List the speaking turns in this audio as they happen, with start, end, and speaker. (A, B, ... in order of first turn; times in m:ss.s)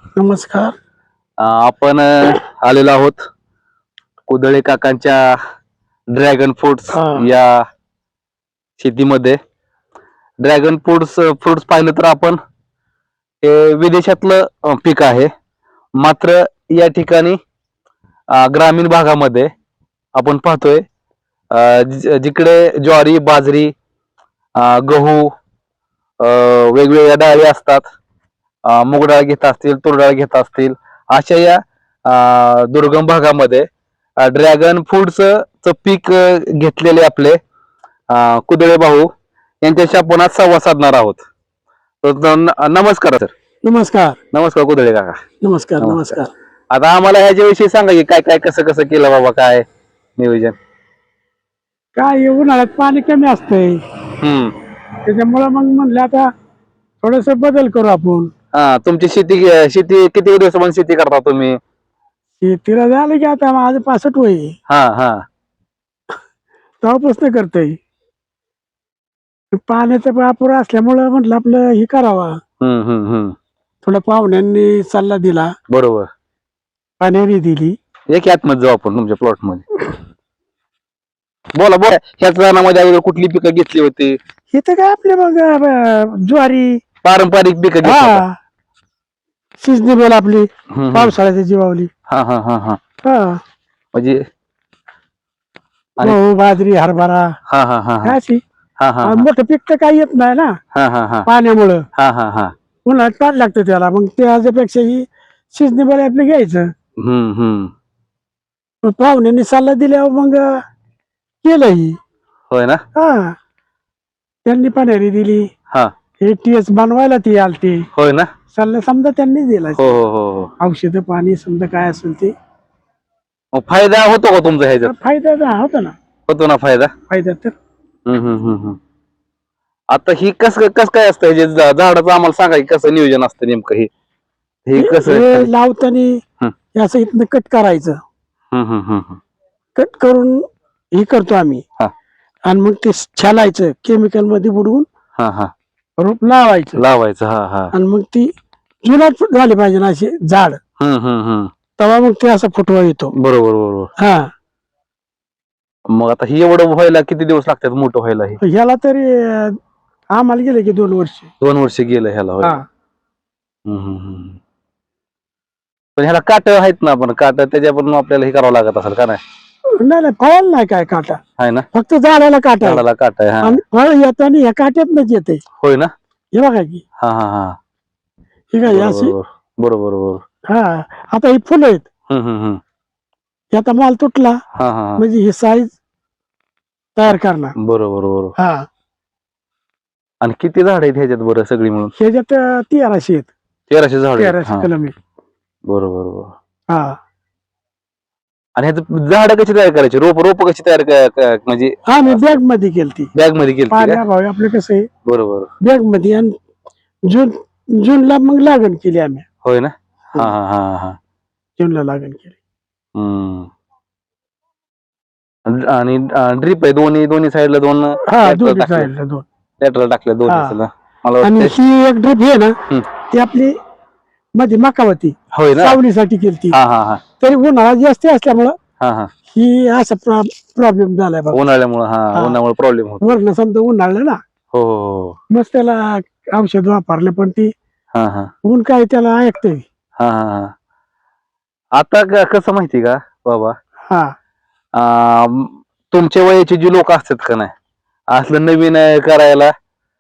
0:00.2-0:00.7 A
0:01.4-0:03.2 B
0:04.3-0:05.4 B
0:06.1-0:07.6 B
0:06.9-0:07.3 A
0:08.8-0:09.4 B
0:10.4-0:12.4 B
0:13.4-0:15.3 B
0:16.0-0:17.4 B
0:18.3-0:19.5 B
0:20.2-0:20.8 B
0:21.5-0:23.7 B
0:24.6-0:25.3 B
0:26.2-0:27.8 B
0:28.7-0:33.7 B
0:34.2-0:37.4 B
0:38.1-0:39.1 B
0:39.6-0:41.2 B
0:42.0-0:43.3 B
0:43.6-0:44.2 A
0:44.3-0:45.2 B
0:45.4-0:46.3 A
0:45.8-0:46.2 B
0:46.7-0:49.6 B
0:50.2-0:50.6 B
0:52.0-0:53.8 A
0:54.2-0:54.5 B
0:55.0-0:56.3 A
0:57.0-0:58.3 A
0:58.5-1:01.6 B
1:02.4-1:04.6 A
1:04.7-1:05.2 B
1:06.8-1:07.8 A
1:09.6-1:12.4 A
1:12.6-1:13.4 B
1:13.8-1:15.5 A
1:15.7-1:16.1 B
1:17.0-1:17.8 A
1:18.1-1:19.6 B
1:21.6-1:24.2 B
1:24.5-1:26.8 A
1:27.0-1:28.2 B
1:27.8-1:28.4 A
1:29.6-1:31.9 A
1:30.7-1:31.2 B
1:32.1-1:32.8 B
1:33.0-1:33.4 A
1:33.9-1:34.2 B
1:36.0-1:37.4 A
1:37.5-1:38.2 B
1:38.0-1:38.4 A
1:38.8-1:39.3 B
1:39.0-1:40.6 A
1:40.7-1:41.3 B
1:41.3-1:41.8 A
1:42.0-1:42.5 B
1:42.9-1:46.7 A
1:47.0-1:47.7 B
1:48.8-1:50.5 A
1:51.4-1:52.0 A
1:52.5-1:52.8 B
1:53.0-1:53.4 A
1:54.5-1:55.5 A
1:56.2-1:57.8 A
1:57.9-1:58.3 B
1:58.5-1:59.8 A
1:59.8-2:00.5 B
2:00.6-2:02.3 A
2:03.5-2:04.9 B
2:04.8-2:06.0 A
2:06.3-2:06.9 B
2:07.1-2:07.6 A
2:08.1-2:08.8 B
2:09.9-2:13.9 B
2:14.7-2:15.5 B
2:14.8-2:16.2 A
2:16.7-2:18.0 A
2:18.5-2:19.2 B
2:19.8-2:20.4 A
2:21.0-2:21.6 A
2:22.5-2:24.9 A
2:25.2-2:25.5 B
2:26.0-2:26.8 A
2:26.8-2:27.7 B
2:27.7-2:28.3 A
2:28.8-2:30.6 A
2:30.8-2:31.5 B
2:31.8-2:33.1 A
2:33.2-2:33.9 B
2:34.0-2:34.3 A
2:35.9-2:38.4 B
2:38.4-2:39.6 A
2:40.1-2:41.3 A
2:41.4-2:42.6 B
2:43.7-2:44.4 B
2:46.0-2:49.2 B
2:49.8-2:51.2 A
2:51.4-2:51.7 B
2:51.7-2:52.8 A
2:52.6-2:53.6 B
2:53.4-2:55.4 A
2:55.6-2:55.9 B
2:56.3-2:56.8 A
2:57.0-2:57.6 B
2:58.5-2:59.2 A
2:58.7-3:00.2 B
3:00.5-3:01.9 A
3:02.1-3:02.6 B
3:03.5-3:04.4 A
3:04.6-3:05.0 B
3:05.0-3:05.7 A
3:07.0-3:07.5 A
3:07.1-3:08.3 B
3:08.4-3:08.6 A
3:10.2-3:11.9 B
3:12.0-3:13.3 A
3:13.7-3:14.7 B
3:14.2-3:14.9 A
3:15.7-3:16.4 B
3:16.7-3:17.0 A
3:18.6-3:22.3 B
3:21.9-3:23.1 A
3:23.1-3:24.0 B
3:23.7-3:24.9 A
3:25.1-3:25.5 B
3:25.6-3:26.3 A
3:27.1-3:29.2 A
3:29.4-3:31.0 B
3:31.6-3:32.4 A
3:33.0-3:33.5 B
3:35.5-3:38.9 B
3:38.1-3:39.2 A
3:39.6-3:41.5 B
3:40.3-3:40.6 A
3:41.2-3:42.6 A
3:43.1-3:43.5 A
3:44.4-3:46.6 A
3:45.3-3:45.8 B
3:46.5-3:47.0 B
3:47.2-3:48.6 A
3:48.8-3:49.1 B
3:49.3-3:51.4 A
3:51.3-3:53.2 B
3:53.0-3:54.2 A
3:54.5-3:55.2 B
3:55.3-3:57.5 A
3:57.9-3:58.3 B
3:58.4-3:59.6 A
4:00.0-4:00.5 B
4:01.8-4:03.6 B
4:04.8-4:07.5 B
4:08.1-4:09.5 B